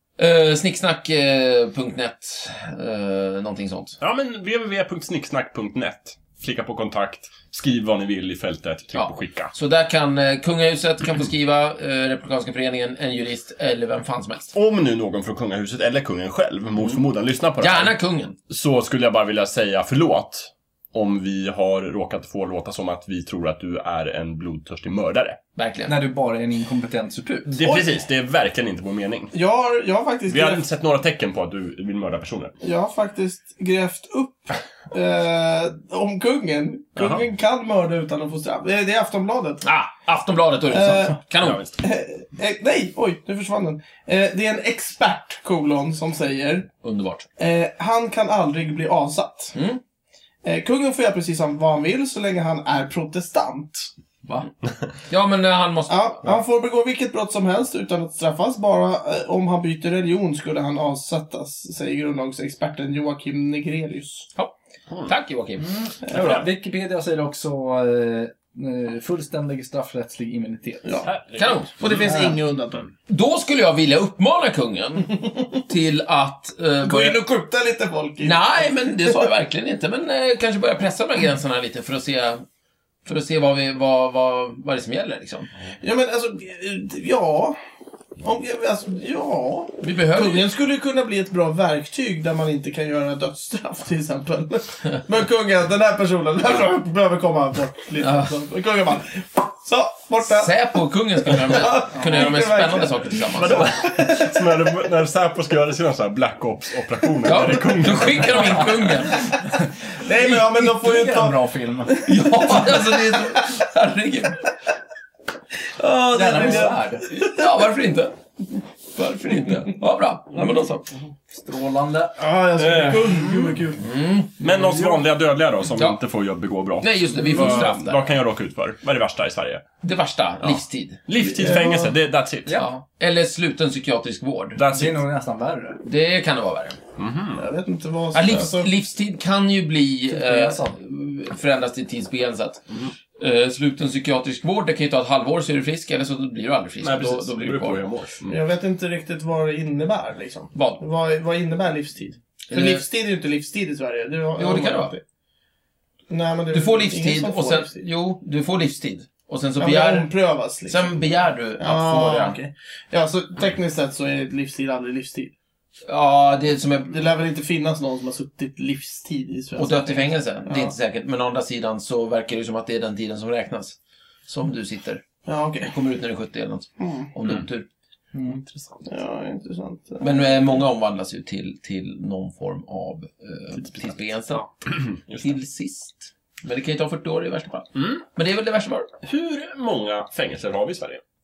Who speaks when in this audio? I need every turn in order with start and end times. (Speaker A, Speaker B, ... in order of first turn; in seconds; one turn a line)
Speaker A: 0.2-4.0
Speaker B: 4.0-9.5
Speaker A: 8.9-14.5
Speaker B: 14.5-17.9
Speaker A: 17.6-18.4
Speaker B: 18.5-25.4
Speaker A: 25.6-26.0
Speaker C: 25.9-27.6
Speaker B: 27.5-29.3
Speaker D: 29.3-30.6
Speaker B: 30.3-32.5
Speaker D: 32.6-39.6
Speaker B: 37.0-37.2
Speaker A: 39.6-41.6
Speaker D: 40.7-41.2
Speaker B: 41.4-41.7
Speaker D: 41.8-46.7
Speaker A: 46.8-47.3
Speaker D: 47.4-49.5
Speaker A: 49.5-49.8
Speaker D: 50.4-53.9
Speaker A: 55.1-56.2
Speaker D: 55.9-64.3
Speaker A: 65.0-65.7
Speaker C: 65.6-71.0
Speaker B: 66.1-66.5
Speaker D: 70.8-71.1
Speaker B: 71.0-72.2
Speaker A: 71.3-71.7
Speaker D: 71.8-72.9
Speaker C: 72.1-72.4
Speaker A: 73.1-77.2
Speaker D: 76.8-79.1
Speaker A: 78.2-82.4
Speaker A: 83.0-85.5
Speaker D: 85.8-87.6
Speaker D: 88.2-100.5
Speaker A: 89.8-90.5
Speaker A: 98.0-98.3
Speaker A: 100.2-103.8
Speaker D: 101.3-104.3
Speaker C: 102.0-102.2
Speaker B: 103.3-109.1
Speaker A: 107.2-109.4
Speaker D: 110.0-113.4
Speaker C: 110.2-112.0
Speaker A: 112.1-114.4
Speaker D: 115.8-117.2
Speaker C: 116.1-117.0
Speaker A: 116.3-118.1
Speaker A: 118.9-120.9
Speaker C: 121.3-122.2
Speaker D: 122.2-123.9
Speaker B: 122.6-123.6
Speaker A: 123.8-124.3
Speaker B: 124.4-129.7
Speaker C: 124.4-125.0
Speaker A: 126.8-128.0
Speaker A: 129.8-131.0
Speaker B: 130.4-132.6
Speaker D: 131.2-131.9
Speaker A: 132.5-134.6
Speaker B: 134.6-135.0
Speaker C: 134.7-135.8
Speaker A: 135.8-136.8
Speaker B: 137.0-137.5
Speaker D: 137.4-138.7
Speaker A: 138.1-142.6
Speaker C: 140.1-140.8
Speaker A: 143.2-147.9
Speaker B: 146.8-148.4
Speaker D: 148.3-155.0
Speaker A: 150.6-150.8
Speaker A: 152.5-152.8
Speaker A: 154.4-154.9
Speaker D: 156.1-157.8
Speaker A: 156.5-160.1
Speaker D: 159.6-161.1
Speaker A: 160.7-162.4
Speaker D: 161.6-165.3
Speaker A: 165.9-167.0
Speaker D: 166.9-170.7
Speaker A: 169.6-175.0
Speaker D: 175.3-175.7
Speaker A: 175.6-177.7
Speaker D: 176.8-177.1
Speaker C: 178.1-178.4
Speaker D: 178.8-180.6
Speaker A: 180.0-188.9
Speaker B: 183.6-183.9
Speaker B: 184.7-185.3
Speaker B: 187.8-188.0
Speaker B: 189.0-191.0